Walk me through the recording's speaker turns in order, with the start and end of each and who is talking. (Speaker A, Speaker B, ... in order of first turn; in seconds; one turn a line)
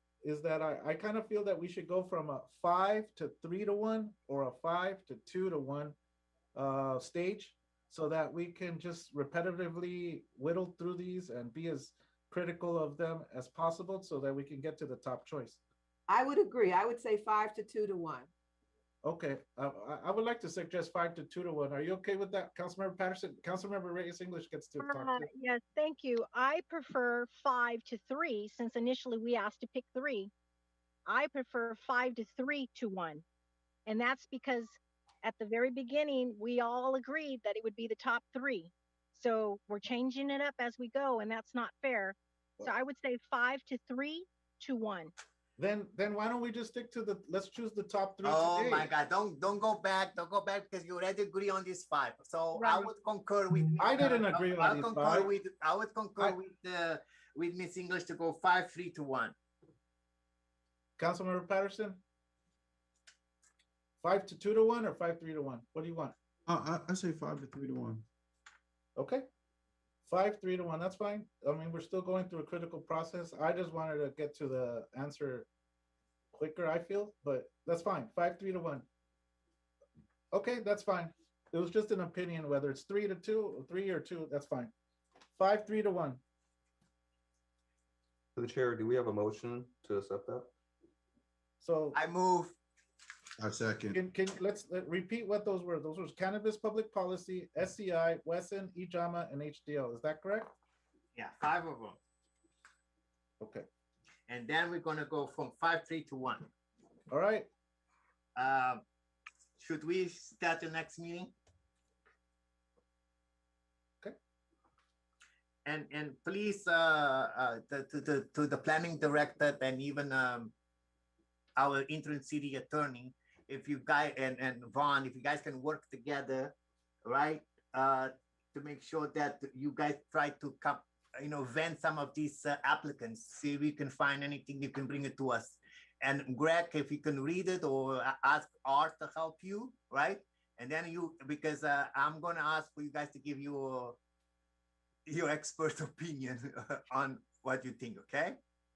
Speaker A: 0.2-6.0
Speaker A: 6.5-15.6
Speaker B: 16.1-18.3
Speaker A: 19.0-25.3
Speaker C: 24.8-30.3
Speaker C: 31.1-33.2
Speaker C: 33.9-45.1
Speaker A: 45.6-48.9
Speaker D: 48.2-59.3
Speaker C: 52.5-52.9
Speaker A: 53.8-55.3
Speaker A: 61.0-62.0
Speaker A: 64.0-66.1
Speaker E: 66.5-68.0
Speaker A: 68.9-69.2
Speaker A: 70.1-75.5
Speaker A: 76.3-78.8
Speaker A: 80.3-84.7
Speaker A: 85.4-86.2
Speaker F: 88.3-90.5
Speaker A: 91.6-92.0
Speaker D: 91.9-92.5
Speaker E: 93.4-94.0
Speaker A: 93.9-100.5
Speaker D: 101.1-102.0
Speaker A: 103.4-103.6
Speaker D: 104.3-106.5
Speaker A: 107.1-107.5
Speaker D: 108.3-108.8
Speaker D: 109.6-111.3
Speaker D: 115.7-120.5
Speaker D: 121.6-126.5
Speaker D: 127.0-144.0
Speaker D: 145.1-148.4